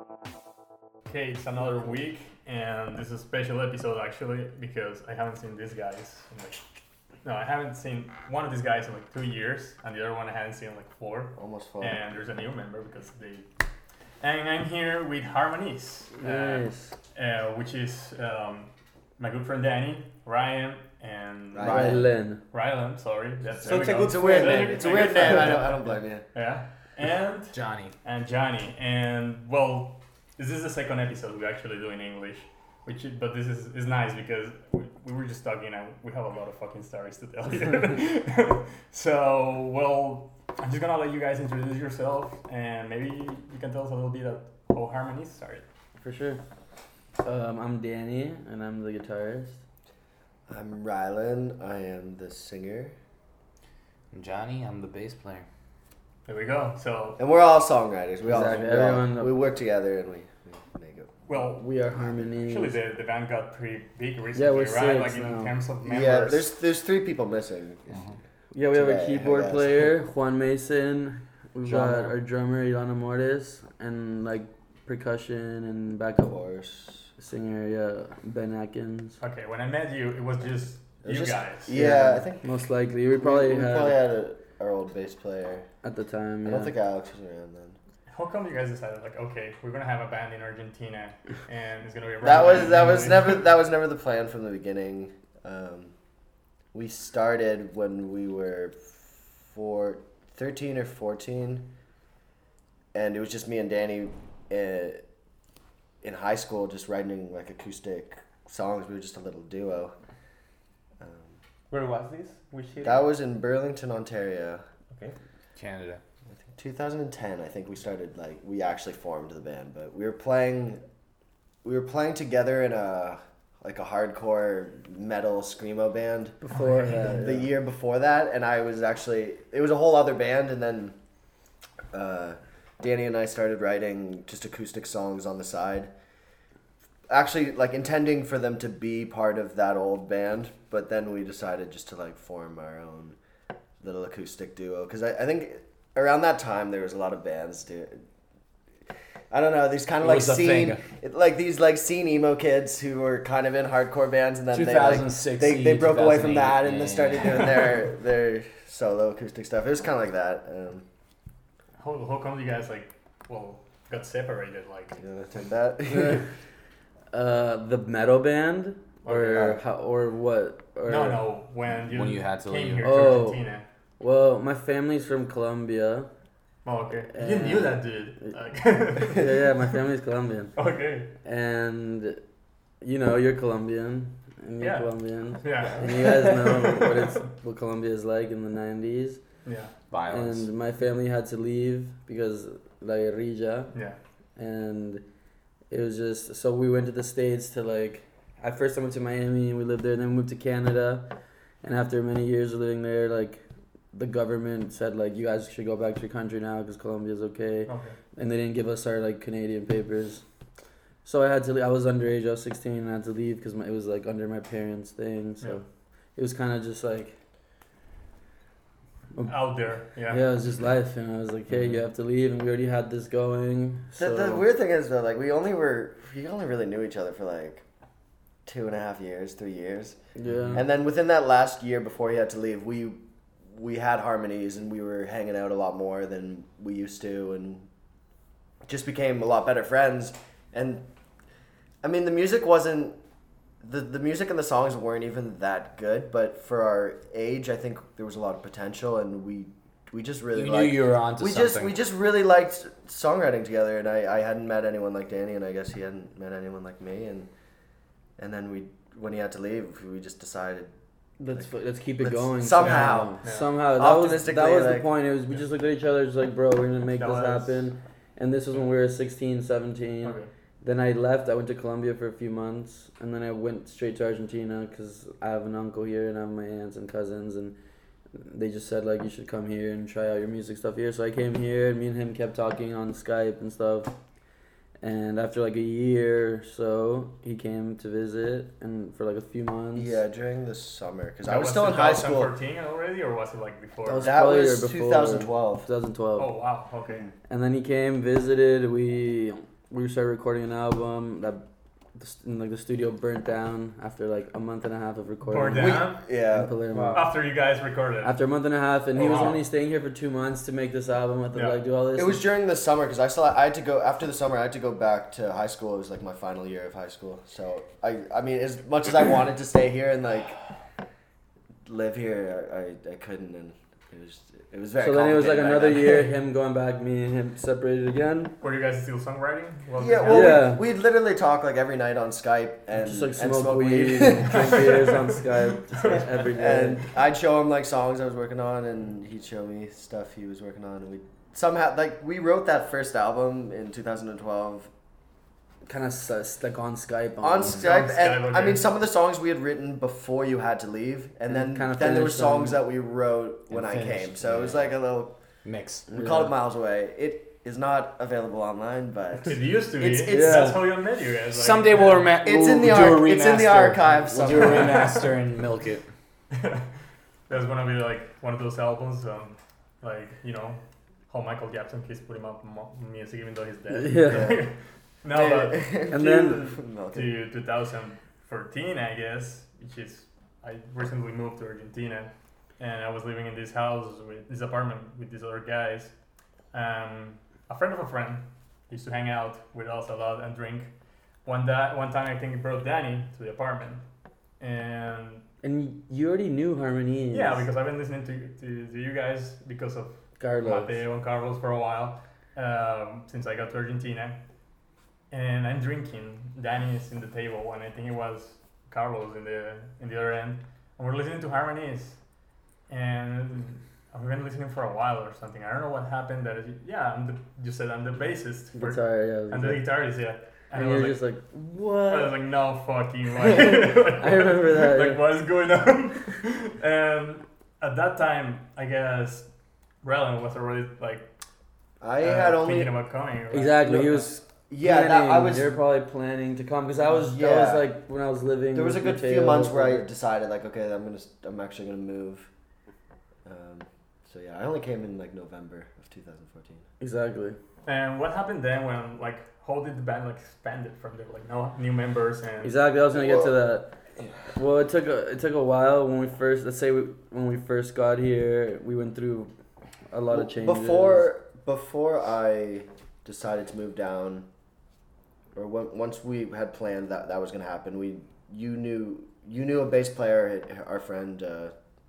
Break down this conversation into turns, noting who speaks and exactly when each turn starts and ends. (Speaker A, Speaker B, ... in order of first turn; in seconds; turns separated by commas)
Speaker A: 1.1-6.6, Speaker A: 7.2-13.5, Speaker B: 11.3-12.0, Speaker A: 14.2-22.0, Speaker C: 16.2-16.9, Speaker B: 21.5-22.0, Speaker C: 21.6-22.4, Speaker A: 22.5-25.8, Speaker D: 23.6-25.6, Speaker B: 23.6-26.2, Speaker A: 26.3-45.6, Speaker E: 27.5-27.9, Speaker C: 46.0-46.4, Speaker C: 47.2-49.6, Speaker B: 50.5-52.9, Speaker E: 54.1-55.5, Speaker A: 56.2-57.2, Speaker B: 57.2-61.1, Speaker C: 58.2-59.4, Speaker A: 61.3-61.6, Speaker C: 61.3-62.8, Speaker A: 62.4-66.5, Speaker C: 64.3-65.5, Speaker B: 65.8-68.0, Speaker E: 67.9-68.2, Speaker C: 68.5-76.3, Speaker B: 68.7-69.9, Speaker B: 71.7-72.1, Speaker B: 76.2-77.1, Speaker C: 77.2-79.2, Speaker A: 79.2-81.8, Speaker B: 81.0-82.5, Speaker C: 81.7-84.0, Speaker B: 83.2-85.7, Speaker C: 85.8-86.7, Speaker B: 86.4-87.8, Speaker A: 88.1-93.4, Speaker B: 92.2-95.9, Speaker B: 96.7-101.7, Speaker B: 102.9-105.0, Speaker B: 106.0-110.0, Speaker B: 111.0-111.3, Speaker D: 111.7-113.0, Speaker B: 112.8-114.6, Speaker E: 115.5-116.0, Speaker B: 116.5-120.8, Speaker B: 121.6-126.4, Speaker C: 126.4-127.5, Speaker A: 126.5-127.0, Speaker B: 127.0-130.9, Speaker B: 131.9-135.9, Speaker B: 137.1-143.2, Speaker B: 143.8-148.0, Speaker B: 149.3-160.8, Speaker E: 150.0-150.8, Speaker E: 154.5-157.8, Speaker A: 161.8-165.0, Speaker B: 165.0-166.2, Speaker C: 165.9-166.2, Speaker C: 167.1-171.2, Speaker B: 169.1-169.6, Speaker A: 170.8-173.6, Speaker E: 171.8-172.9, Speaker C: 172.8-173.4, Speaker C: 174.0-176.1, Speaker A: 176.6-179.3, Speaker C: 177.1-177.8, Speaker C: 179.0-180.5, Speaker A: 180.6-181.1, Speaker C: 181.2-182.2, Speaker C: 182.8-189.2, Speaker A: 184.6-186.9, Speaker B: 186.0-186.3, Speaker A: 189.4-189.7, Speaker E: 189.9-190.5, Speaker C: 190.1-193.7, Speaker C: 194.4-195.0, Speaker C: 195.7-201.1, Speaker C: 201.6-210.2, Speaker A: 207.7-208.0, Speaker C: 211.0-215.6, Speaker C: 216.2-217.1, Speaker A: 219.2-220.2, Speaker C: 220.1-224.4, Speaker B: 223.9-227.6, Speaker B: 228.4-230.0, Speaker C: 230.2-230.6, Speaker E: 230.3-230.6, Speaker B: 230.5-237.7, Speaker B: 238.7-240.8, Speaker B: 241.8-243.0, Speaker B: 243.6-257.3, Speaker E: 250.3-251.7, Speaker B: 258.2-260.7, Speaker C: 261.2-277.6, Speaker B: 262.0-263.2, Speaker A: 262.6-263.5, Speaker B: 263.7-264.9, Speaker A: 266.9-267.6, Speaker A: 270.0-270.3, Speaker C: 278.1-283.9, Speaker C: 284.8-289.9, Speaker B: 289.7-292.3, Speaker A: 291.2-294.1, Speaker C: 293.8-296.3, Speaker B: 294.0-295.7, Speaker A: 296.2-297.1, Speaker C: 297.3-301.4, Speaker C: 301.9-307.1, Speaker A: 305.2-306.0, Speaker B: 305.5-306.5, Speaker D: 306.7-307.0, Speaker A: 306.9-308.1, Speaker C: 308.0-312.2, Speaker A: 308.9-309.4, Speaker A: 311.3-311.6, Speaker B: 311.9-320.3, Speaker B: 321.6-326.1, Speaker C: 324.8-328.3, Speaker A: 328.4-330.5, Speaker B: 329.8-334.9, Speaker C: 330.1-330.6, Speaker C: 332.8-336.8, Speaker A: 334.3-336.6, Speaker B: 336.3-344.7, Speaker C: 345.6-347.6, Speaker B: 347.2-355.1, Speaker A: 347.4-348.7, Speaker C: 351.3-352.6, Speaker E: 353.5-354.7, Speaker E: 355.4-355.9, Speaker C: 355.9-356.3, Speaker B: 355.9-360.6, Speaker A: 359.2-362.1, Speaker C: 360.1-360.6, Speaker E: 361.3-365.9, Speaker B: 362.2-365.1, Speaker A: 364.3-365.1, Speaker A: 366.3-366.7, Speaker A: 367.3-385.9, Speaker C: 373.7-374.4, Speaker B: 374.1-374.4, Speaker B: 375.1-377.2, Speaker C: 375.9-376.4, Speaker A: 386.5-390.7, Speaker A: 391.2-393.8, Speaker A: 394.4-395.2, Speaker C: 395.4-397.5, Speaker A: 397.1-404.2, Speaker C: 400.2-400.8, Speaker A: 405.1-412.0, Speaker A: 412.7-421.0, Speaker C: 418.5-419.6, Speaker C: 420.5-422.2, Speaker A: 421.9-429.3, Speaker C: 423.2-425.0, Speaker A: 429.8-431.1, Speaker B: 431.8-432.7, Speaker A: 432.0-433.9, Speaker C: 433.3-439.8, Speaker B: 433.6-435.5, Speaker B: 436.9-437.7, Speaker B: 438.5-442.3, Speaker B: 443.2-446.6, Speaker C: 446.8-447.4, Speaker A: 447.6-452.6, Speaker C: 452.4-453.7, Speaker B: 452.9-453.4, Speaker C: 454.3-459.3, Speaker C: 459.9-461.1, Speaker B: 460.1-464.3, Speaker B: 465.3-471.5